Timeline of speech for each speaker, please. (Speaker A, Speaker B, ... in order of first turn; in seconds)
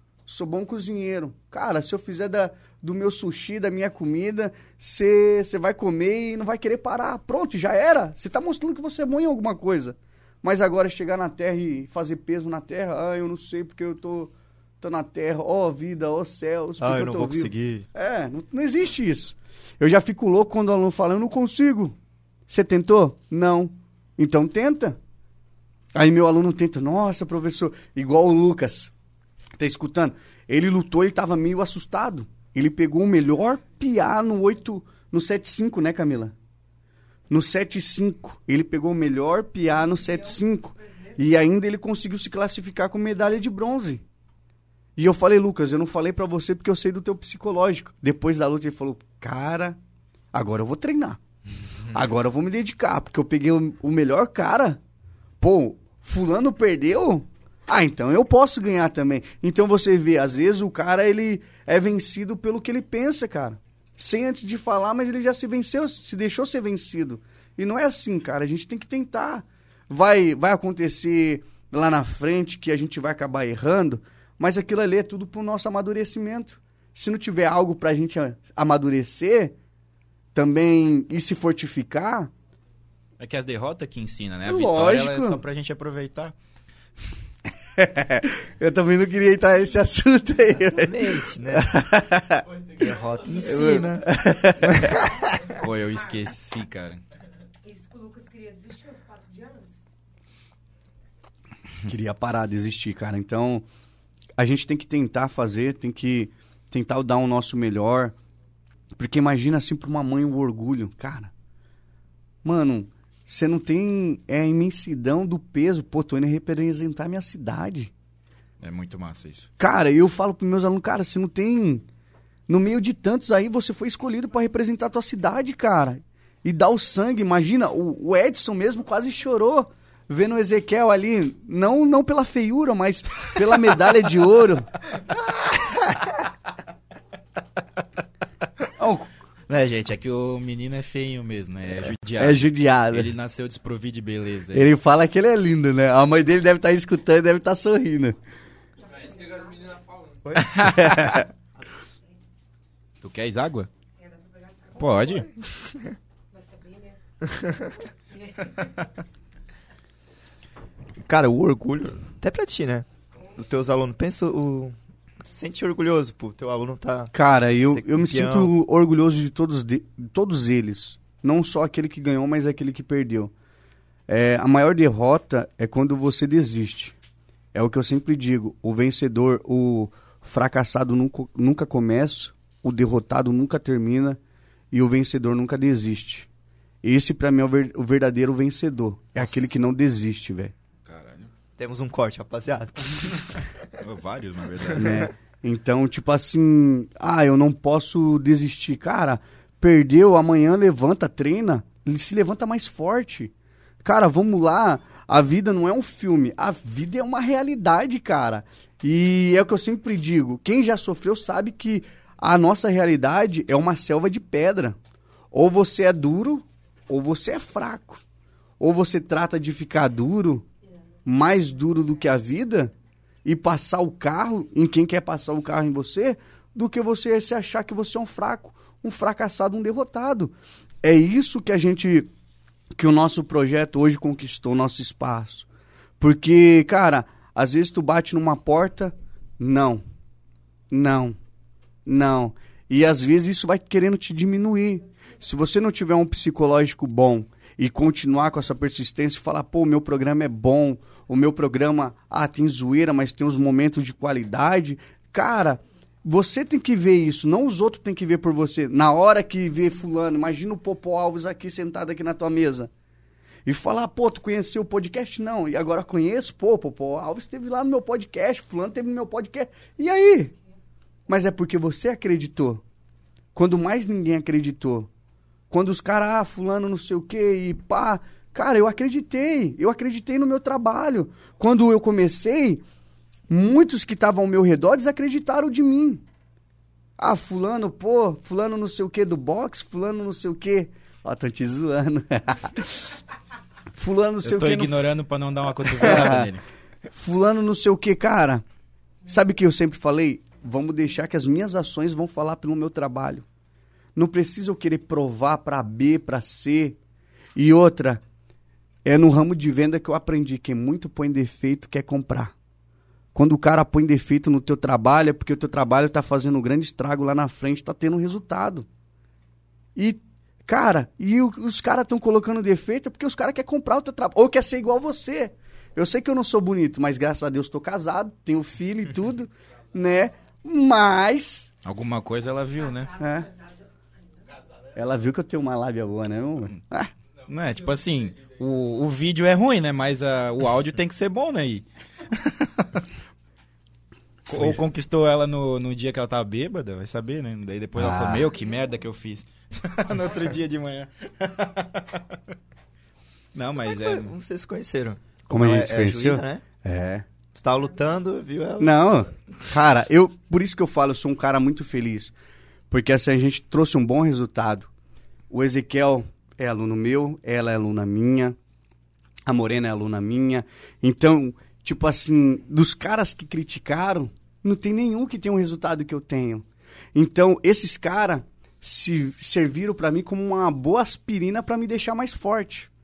Speaker A: 0.3-21.9, 22.5-25.0, 25.9-28.9, 29.6-36.3, 37.3-44.0, 45.0-49.8, 50.3-51.2, 51.9-54.8, 55.4-79.5, 80.3-82.3, 84.5-85.4, 87.8-92.4, 93.4-95.0, 101.9-103.6, 104.4-108.1, 109.0-111.3, 112.4-117.9, 119.6-121.8, 122.5-134.7, 138.8-139.1, 142.2-143.1, 144.5-148.2, 150.6-151.3, 167.1-173.3, 174.1-176.9, 177.5-184.2, 184.7-186.3, 186.8-190.5, 194.7-203.3, 203.8-214.8, 215.3-218.0, 218.6-220.4, 221.1-222.7, 223.2-232.1, 232.7-235.5, 236.0-239.8, 240.7-241.2, 241.8-262.7, 263.4-270.3, 271.1-272.6, 273.3-274.9, 275.5-282.6, 283.3-286.0, 287.0-292.8, 293.7-294.8, 295.8-296.3, 296.9-298.4, 299.1-303.2, 303.9-306.8, 307.4-308.0, 308.8-312.3, 313.1-318.7, 319.8-331.5, 333.0-333.3, 334.8-336.9, 344.3-344.6, 347.8-348.3, 355.3-357.1, 358.6-362.1, 362.7-364.7, 365.3-368.4, 369.3-382.7
Speaker B: 16.8-17.9, 90.6-91.8, 92.8-95.1, 161.0-168.5, 191.6-193.4, 353.6-356.4, 357.3-359.0
Speaker C: 39.9-41.2, 95.6-96.3, 97.6-99.8, 148.8-149.7, 151.7-152.2, 153.9-155.3, 156.3-159.0, 332.6-334.2
Speaker D: 83.2-86.3, 95.5-97.0, 118.6-119.5, 139.5-144.7, 150.4-151.2, 153.0-153.7, 154.8-155.3, 190.8-191.3, 193.8-195.1, 294.2-296.4, 331.6-332.9, 337.3-342.8, 344.3-352.2, 353.3-354.1
Speaker E: 92.4-94.4, 148.8-150.6, 334.3-334.8, 337.2-338.4